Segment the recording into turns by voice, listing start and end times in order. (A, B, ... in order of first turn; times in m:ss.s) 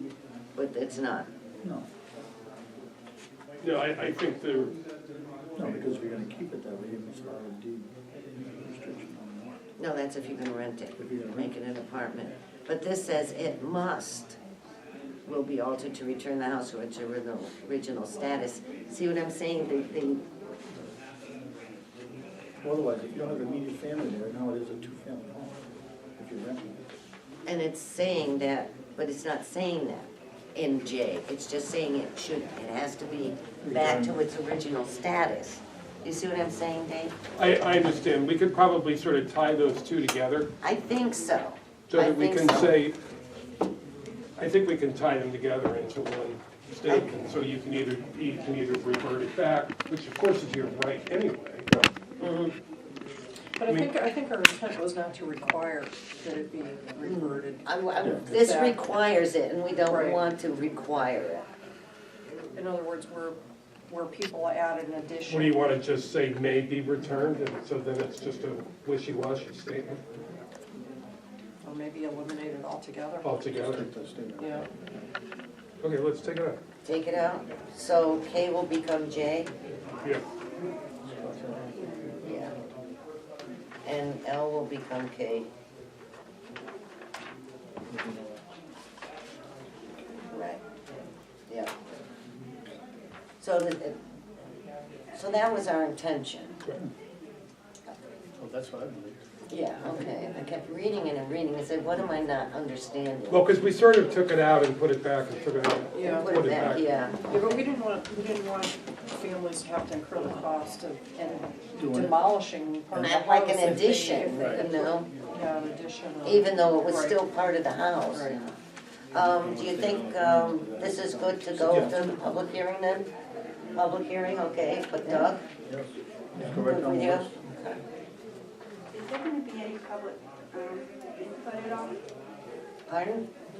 0:00.6-0:01.3 A
0:01.6-0:01.9 B
0:03.6-0:04.7 C
0:05.6-0:09.6 B
0:09.8-0:14.4 A
0:11.0-0:11.5 B
0:15.3-0:20.2 A
0:22.6-0:25.6 B
0:26.2-0:26.8 B
0:27.5-0:37.2 A
0:33.6-0:34.2 B
0:37.4-0:40.5 C
0:40.6-0:42.8 A
0:41.9-0:43.0 C
0:44.4-0:51.7 C
0:52.2-0:52.5 A
0:53.6-0:57.6 D
0:53.6-0:53.9 C
0:57.0-1:01.5 A
0:58.0-0:58.3 B
0:58.2-0:58.8 D
0:59.9-1:00.2 D
1:02.5-1:05.6 D
1:05.3-1:10.0 C
1:11.6-1:13.7 D
1:13.2-1:13.8 C
1:13.5-1:15.1 B
1:14.4-1:14.7 D
1:15.8-1:16.6 C
1:16.8-1:19.5 A
1:21.0-1:22.0 B
1:22.2-1:22.5 A
1:23.8-1:25.5 A
1:27.9-1:28.4 B
1:30.3-1:30.6 A
1:33.4-1:34.0 A
1:35.1-1:36.6 A
1:38.4-1:39.2 B
1:39.5-1:43.5 A
1:43.3-1:46.9 C
1:45.9-1:46.4 D
1:46.0-1:47.6 A
1:47.2-1:57.2 D
1:51.8-1:52.2 B
1:52.9-1:55.1 A
1:54.4-1:54.8 B
1:56.2-1:58.6 A
1:58.1-1:58.5 D
1:59.1-2:03.1 A
1:59.2-2:02.1 B
2:03.7-2:05.4 A
2:05.7-2:07.3 B
2:06.4-2:07.8 A
2:08.9-2:12.0 E
2:12.9-2:13.3 A